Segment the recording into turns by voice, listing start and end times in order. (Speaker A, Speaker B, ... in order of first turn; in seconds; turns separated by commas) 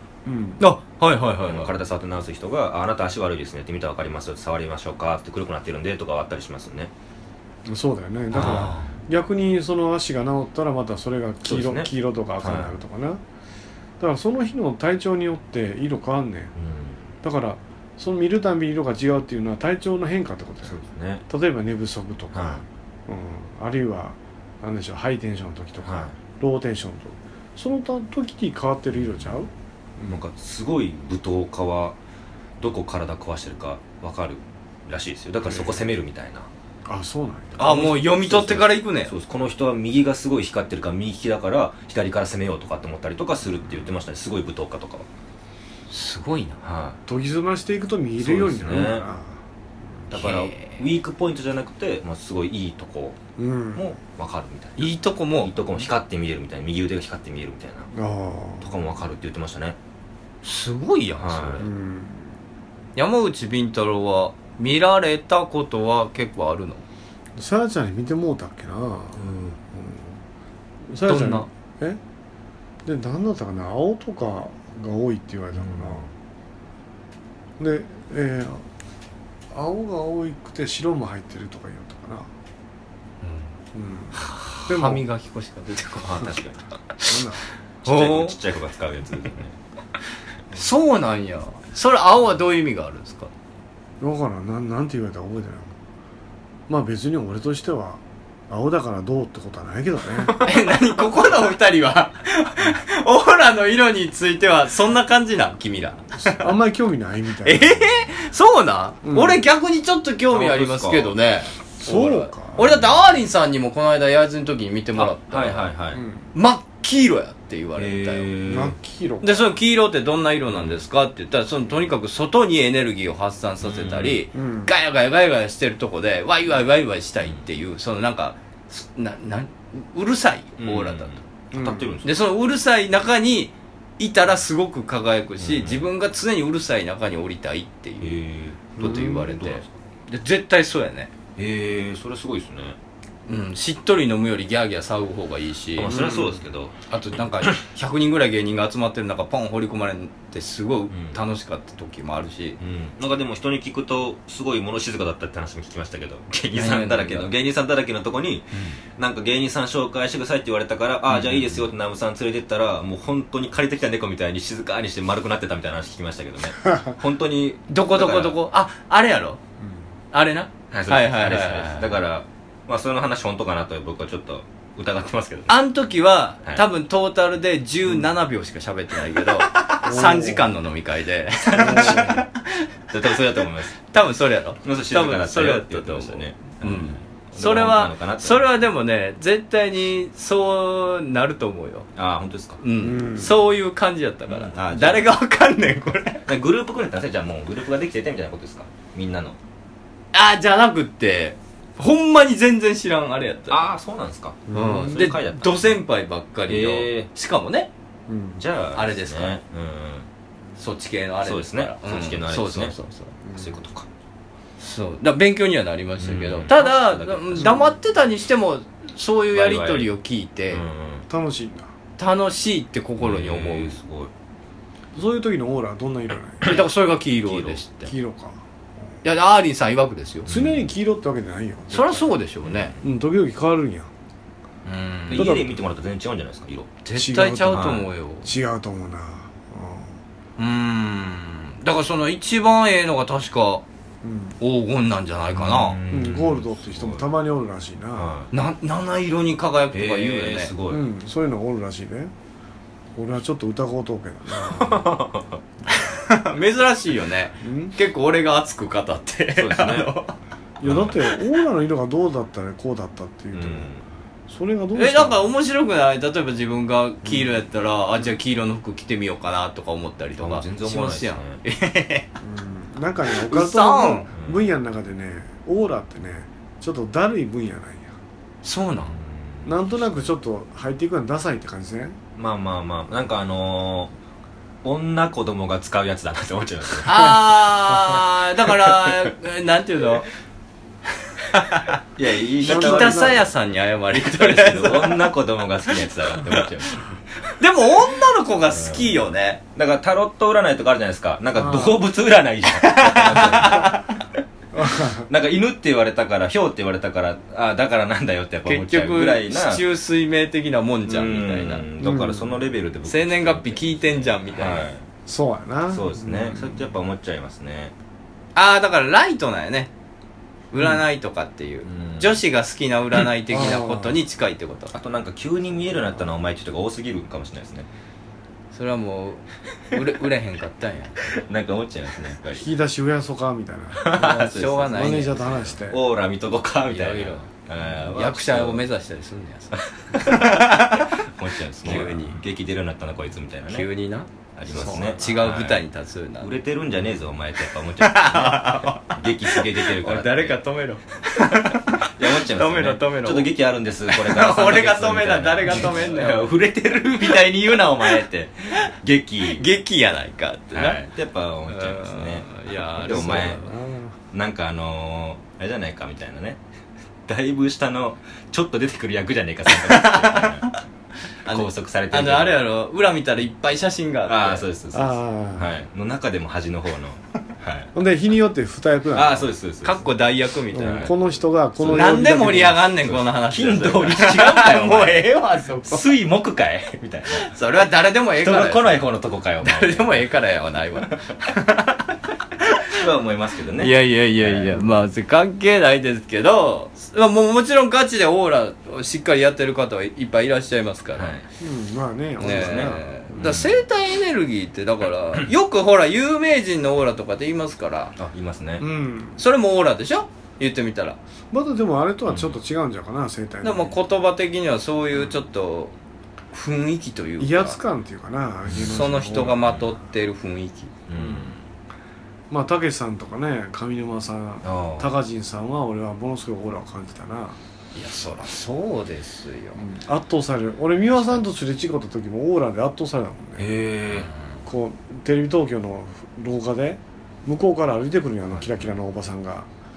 Speaker A: 0.2-0.6, Speaker B: 0.6-1.7, Speaker C: 1.4-6.9, Speaker A: 7.7-13.2, Speaker C: 8.3-8.8, Speaker B: 8.3-8.9, Speaker C: 11.4-12.7, Speaker A: 14.0-16.5, Speaker C: 16.6-17.0, Speaker A: 17.2-20.8, Speaker C: 20.6-21.2, Speaker A: 21.3-30.2, Speaker C: 22.3-22.6, Speaker C: 25.8-26.1, Speaker C: 28.9-29.4, Speaker C: 30.1-32.0, Speaker C: 32.6-36.5, Speaker A: 35.4-35.9, Speaker A: 36.8-38.0, Speaker C: 37.6-45.1, Speaker B: 37.6-39.1, Speaker B: 45.9-46.6, Speaker C: 46.6-47.0, Speaker A: 47.1-49.4, Speaker C: 48.2-49.0, Speaker C: 50.1-53.2, Speaker B: 50.1-50.8, Speaker A: 53.4-53.9, Speaker C: 53.7-57.9, Speaker B: 54.8-55.5, Speaker A: 57.9-58.8, Speaker C: 58.6-59.8, Speaker B: 60.4-61.7, Speaker C: 61.2-61.7, Speaker A: 61.6-62.3, Speaker B: 63.0-66.8, Speaker A: 67.3-70.2, Speaker C: 69.2-69.5, Speaker A: 70.9-72.0, Speaker B: 71.0-71.5, Speaker A: 72.8-76.0, Speaker C: 75.5-76.1, Speaker A: 77.6-78.6, Speaker A: 79.5-82.3, Speaker B: 83.2-83.5, Speaker A: 83.7-85.0, Speaker B: 84.2-86.3, Speaker C: 86.0-86.7, Speaker A: 87.0-87.4, Speaker C: 87.8-89.5, Speaker B: 87.8-88.3, Speaker B: 90.5-93.3, Speaker A: 94.0-95.8, Speaker A: 96.7-100.3, Speaker B: 100.4-106.4, Speaker A: 106.4-107.9, Speaker B: 107.4-115.7, Speaker A: 109.0-109.4, Speaker C: 110.3-111.1, Speaker A: 111.8-112.8, Speaker C: 115.0-116.0, Speaker A: 115.9-116.2, Speaker B: 116.3-118.2, Speaker C: 117.8-118.8, Speaker A: 118.5-119.5, Speaker B: 119.2-131.2, Speaker C: 120.5-120.8, Speaker C: 123.6-124.2, Speaker A: 124.3-124.7, Speaker C: 130.6-132.1, Speaker A: 131.5-131.9, Speaker B: 132.0-138.2, Speaker C: 135.4-135.9, Speaker C: 138.0-139.7, Speaker B: 138.8-141.1, Speaker A: 138.8-139.1, Speaker C: 141.4-142.8, Speaker B: 143.3-145.9, Speaker C: 145.8-147.6, Speaker A: 145.9-146.4, Speaker B: 146.9-152.6, Speaker C: 150.9-151.2, Speaker C: 152.6-168.4, Speaker B: 156.5-157.3, Speaker B: 161.1-161.6, Speaker B: 167.7-169.4, Speaker B: 170.1-171.9, Speaker C: 170.7-175.6, Speaker B: 175.5-182.5, Speaker C: 179.5-179.8, Speaker A: 179.8-180.4, Speaker C: 181.4-182.2, Speaker A: 181.6-182.2, Speaker C: 182.9-183.8, Speaker B: 183.8-191.9, Speaker C: 184.6-188.5, Speaker C: 191.9-192.6, Speaker B: 192.6-196.3, Speaker A: 192.8-193.3, Speaker C: 194.3-195.1, Speaker C: 196.3-199.4, Speaker B: 200.1-203.6, Speaker C: 203.5-205.8, Speaker A: 204.5-204.9, Speaker B: 204.5-207.7, Speaker C: 206.5-207.1, Speaker A: 208.1-208.4, Speaker C: 208.4-210.1, Speaker B: 208.7-209.4, Speaker B: 210.6-213.1, Speaker C: 211.2-212.7, Speaker A: 213.2-213.5, Speaker C: 213.3-213.9, Speaker B: 214.6-220.6, Speaker C: 216.0-217.6, Speaker C: 219.3-219.9, Speaker C: 220.5-221.0, Speaker A: 221.1-221.7, Speaker B: 222.0-223.8, Speaker C: 223.0-224.1, Speaker A: 224.9-226.6, Speaker B: 226.4-227.9, Speaker C: 227.3-227.6, Speaker A: 227.8-228.4, Speaker B: 229.0-230.3, Speaker C: 230.2-230.7, Speaker A: 230.3-232.1, Speaker B: 231.7-232.7, Speaker C: 232.4-232.8, Speaker A: 232.8-233.9, Speaker B: 234.6-235.3, Speaker C: 235.1-236.7, Speaker A: 235.1-235.6, Speaker B: 236.8-238.3, Speaker A: 236.9-240.0, Speaker B: 240.4-243.6, Speaker A: 244.0-244.4, Speaker B: 244.4-245.8, Speaker C: 245.3-247.0, Speaker A: 245.9-248.1, Speaker C: 247.9-248.3, Speaker B: 248.3-250.5, Speaker C: 249.7-250.8, Speaker A: 250.7-252.1, Speaker A: 252.9-254.9, Speaker C: 254.4-255.4, Speaker B: 255.7-260.1, Speaker A: 257.4-257.7, Speaker C: 259.4-259.9, Speaker A: 260.6-263.7, Speaker C: 260.6-261.1, Speaker C: 263.3-263.9, Speaker A: 264.3-265.3, Speaker B: 264.8-272.1, Speaker C: 270.2-271.4, Speaker A: 272.2-277.9, Speaker B: 273.3-274.1, Speaker C: 274.2-274.5, Speaker B: 278.4-278.9, Speaker C: 278.8-280.1, Speaker A: 279.4-282.0, Speaker C: 282.2-283.9, Speaker C: 284.6-287.2, Speaker B: 286.8-290.1, Speaker C: 288.6-289.0, Speaker B: 291.3-291.8, Speaker C: 291.9-293.3, Speaker B: 292.4-295.1, Speaker A: 292.4-293.2, Speaker C: 293.9-296.9, Speaker B: 296.2-296.5, Speaker B: 297.3-299.4, Speaker C: 298.5-299.0, Speaker C: 299.6-303.8, Speaker A: 301.3-301.8, Speaker B: 302.6-303.9, Speaker A: 304.5-305.1, Speaker C: 305.1-309.6, Speaker B: 308.4-311.6, Speaker C: 310.9-314.8, Speaker A: 311.8-312.4, Speaker B: 312.9-314.7, Speaker A: 315.1-316.6, Speaker C: 315.7-317.7, Speaker B: 318.3-319.7, Speaker B: 320.5-324.8, Speaker C: 321.6-322.2, Speaker A: 323.3-324.0, Speaker C: 324.7-327.7, Speaker B: 328.5-331.2, Speaker C: 331.1-332.4, Speaker A: 332.3-333.9, Speaker C: 333.8-338.6, Speaker B: 333.9-335.2, Speaker A: 334.7-335.8, Speaker B: 336.7-340.9, Speaker C: 339.9-343.7, Speaker B: 341.6-342.2, Speaker B: 343.5-346.3, Speaker C: 344.4-345.6, Speaker A: 344.6-345.0, Speaker C: 346.2-350.4, Speaker B: 347.8-353.3, Speaker C: 351.2-359.4, Speaker B: 353.9-358.7, Speaker B: 359.3-360.9, Speaker C: 360.5-363.4, Speaker B: 361.5-363.5, Speaker A: 362.8-363.9, Speaker C: 364.1-366.4, Speaker C: 367.1-370.6, Speaker B: 369.5-370.6, Speaker B: 371.2-374.4, Speaker C: 371.3-372.4, Speaker C: 374.1-377.7, Speaker A: 374.7-375.5, Speaker A: 377.7-379.3, Speaker C: 378.9-379.9, Speaker B: 379.6-380.9, Speaker A: 380.5-382.8, Speaker C: 380.6-380.9, Speaker C: 381.6-387.3, Speaker B: 381.7-385.8, Speaker B: 387.1-388.9, Speaker C: 388.2-390.1, Speaker B: 389.4-391.8, Speaker C: 392.7-394.7, Speaker B: 393.6-401.1, Speaker C: 400.9-401.2, Speaker A: 401.4-403.3, Speaker B: 402.2-407.9, Speaker C: 402.2-403.6, Speaker C: 408.0-408.6, Speaker A: 408.6-409.2, Speaker B: 409.2-411.0, Speaker A: 411.3-413.8, Speaker C: 412.1-412.4, Speaker B: 413.4-415.7, Speaker B: 416.3-417.6, Speaker A: 417.2-419.6, Speaker C: 418.5-418.8, Speaker B: 418.7-420.7, Speaker C: 419.3-419.7, Speaker C: 420.9-421.4, Speaker A: 420.9-421.4, Speaker A: 422.3-427.4, Speaker C: 424.4-424.9, Speaker B: 427.7-429.6, Speaker A: 429.6-433.5, Speaker C: 433.4-434.1, Speaker B: 433.9-434.4, Speaker A: 434.4-439.5